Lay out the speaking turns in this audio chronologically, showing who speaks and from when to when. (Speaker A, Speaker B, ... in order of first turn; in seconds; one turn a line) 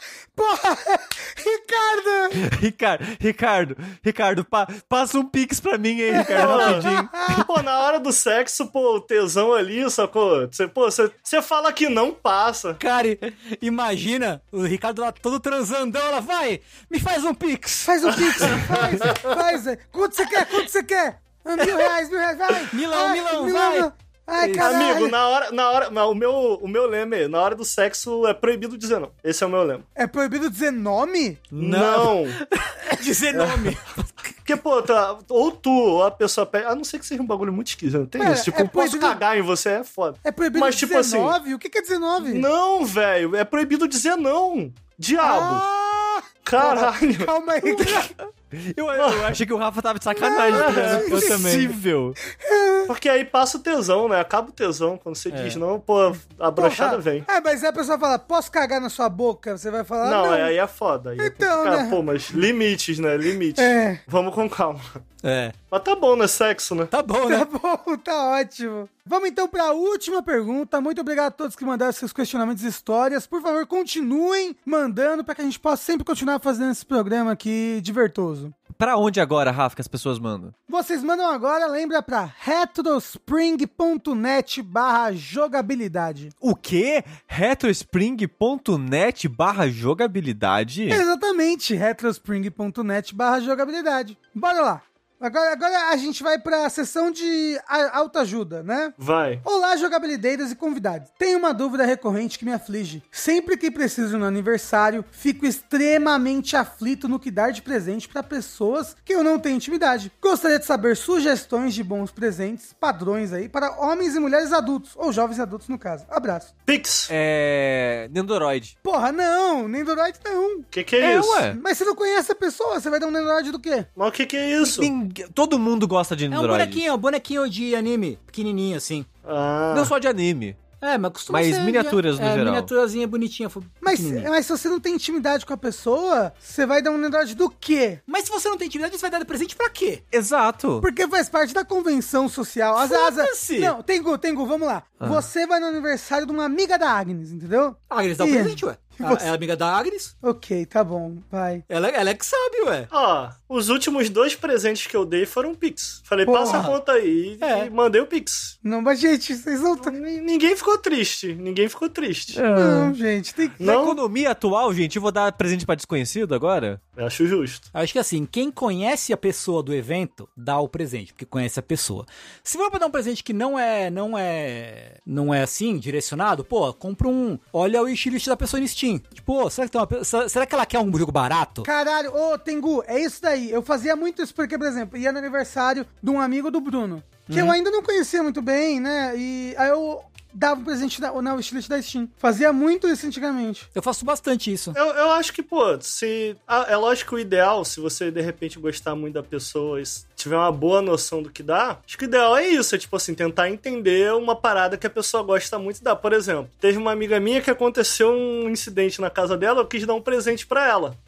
Speaker A: 0.4-2.4
Speaker B: 2.4-7.5
Speaker A: 6.1-7.5
Speaker C: 6.3-6.9
Speaker C: 7.4-12.8
Speaker D: 12.8-18.7
Speaker A: 17.9-25.1
Speaker C: 18.4-19.3
Speaker D: 22.7-24.9
Speaker C: 24.6-29.9
Speaker A: 30.0-31.4
Speaker D: 31.5-34.1
Speaker C: 31.6-32.4
Speaker C: 33.3-33.8
Speaker C: 34.5-41.4
Speaker A: 38.2-39.2
Speaker A: 40.2-42.5
Speaker C: 42.2-45.6
Speaker A: 45.2-48.1
Speaker C: 46.5-47.3
Speaker B: 47.6-52.2
Speaker C: 48.9-49.4
Speaker A: 50.1-51.5
Speaker C: 50.5-51.6
Speaker D: 51.0-51.7
Speaker A: 52.3-52.9
Speaker C: 52.9-57.3
Speaker D: 55.3-55.6
Speaker A: 56.6-60.5
Speaker C: 60.0-65.0
Speaker A: 61.2-62.0
Speaker A: 63.6-64.0
Speaker D: 65.2-65.5
Speaker C: 65.7-66.9
Speaker D: 66.9-67.5
Speaker A: 67.3-78.5
Speaker B: 78.7-80.5
Speaker A: 80.7-86.3
Speaker B: 86.4-91.0
Speaker A: 90.9-116.5
Speaker C: 99.0-99.4
Speaker C: 116.7-117.1
Speaker B: 117.1-118.7
Speaker A: 118.8-120.7
Speaker C: 120.7-121.5
Speaker B: 121.0-121.6
Speaker A: 121.5-123.9
Speaker C: 124.0-124.9
Speaker B: 124.6-126.9
Speaker D: 126.3-129.1
Speaker C: 129.2-129.9
Speaker B: 129.7-130.6
Speaker D: 130.8-134.3
Speaker B: 131.3-132.7
Speaker A: 133.8-138.0
Speaker D: 138.1-140.0
Speaker B: 140.1-140.9
Speaker A: 140.8-149.3
Speaker D: 142.8-143.7
Speaker D: 147.9-150.1
Speaker A: 150.2-151.6
Speaker D: 151.7-152.9
Speaker C: 152.9-158.6
Speaker A: 156.2-156.8
Speaker D: 157.4-157.7
Speaker A: 158.6-159.9
Speaker C: 159.8-162.4
Speaker B: 162.3-163.0
Speaker A: 162.5-163.6
Speaker C: 163.6-164.0
Speaker B: 163.6-166.8
Speaker C: 167.0-167.7
Speaker D: 167.7-181.7
Speaker A: 181.7-193.7
Speaker D: 187.3-187.6
Speaker D: 193.7-194.8
Speaker C: 194.7-211.0